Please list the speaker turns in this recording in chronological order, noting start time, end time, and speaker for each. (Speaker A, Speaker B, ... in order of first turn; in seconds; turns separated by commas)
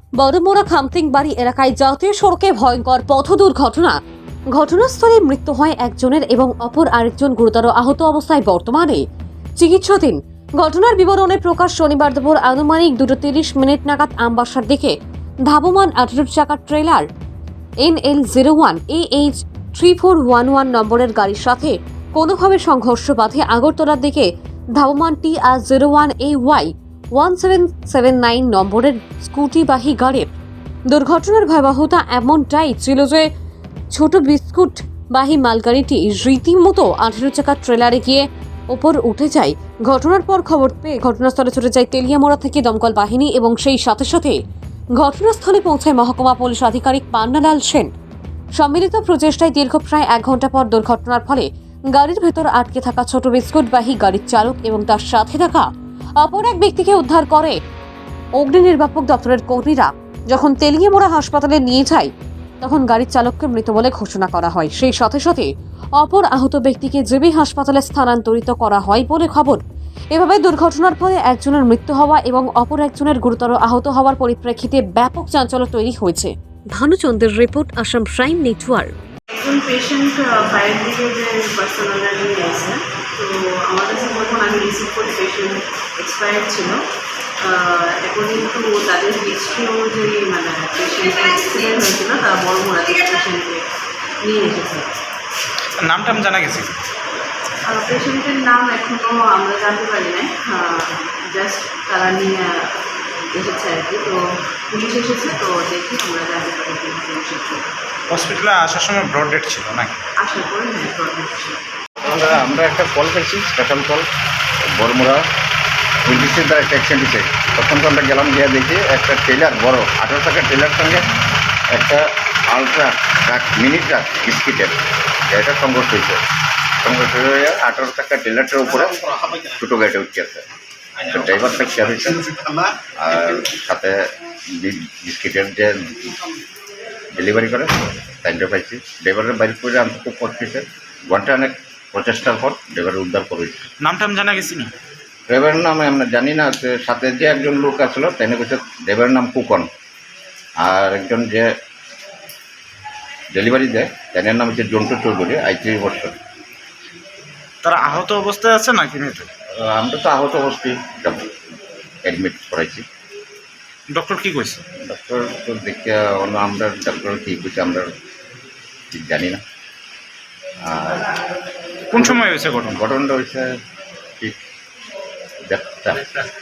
Speaker A: 0.2-4.0, Speaker A: 4.5-9.0, Speaker A: 9.6-14.9, Speaker A: 15.5-17.1, Speaker A: 17.8-30.3, Speaker A: 30.9-33.3, Speaker A: 33.9-44.4, Speaker A: 45.0-47.9, Speaker A: 48.6-57.6, Speaker A: 58.4-62.1, Speaker A: 62.6-69.6, Speaker A: 70.1-78.9, Speaker B: 79.3-86.8, Speaker B: 87.4-93.7, Speaker B: 94.2-95.0, Speaker C: 95.8-96.8, Speaker B: 97.7-107.7, Speaker C: 108.1-110.0, Speaker B: 110.2-111.6, Speaker D: 112.0-114.1, Speaker D: 114.8-115.2, Speaker D: 116.1-121.0, Speaker D: 121.7-124.8, Speaker D: 125.3-126.2, Speaker D: 126.8-130.4, Speaker D: 131.1-132.3, Speaker D: 133.0-134.0, Speaker D: 134.5-136.2, Speaker D: 137.1-143.6, Speaker C: 143.8-144.7, Speaker D: 145.3-149.7, Speaker D: 150.6-151.5, Speaker D: 153.3-156.2, Speaker C: 157.6-159.3, Speaker D: 159.6-161.3, Speaker D: 162.1-162.8, Speaker C: 163.9-164.6, Speaker D: 164.9-167.9, Speaker D: 168.9-169.4, Speaker D: 170.6-171.1, Speaker C: 171.9-172.8, Speaker D: 172.7-173.5, Speaker D: 175.5-176.2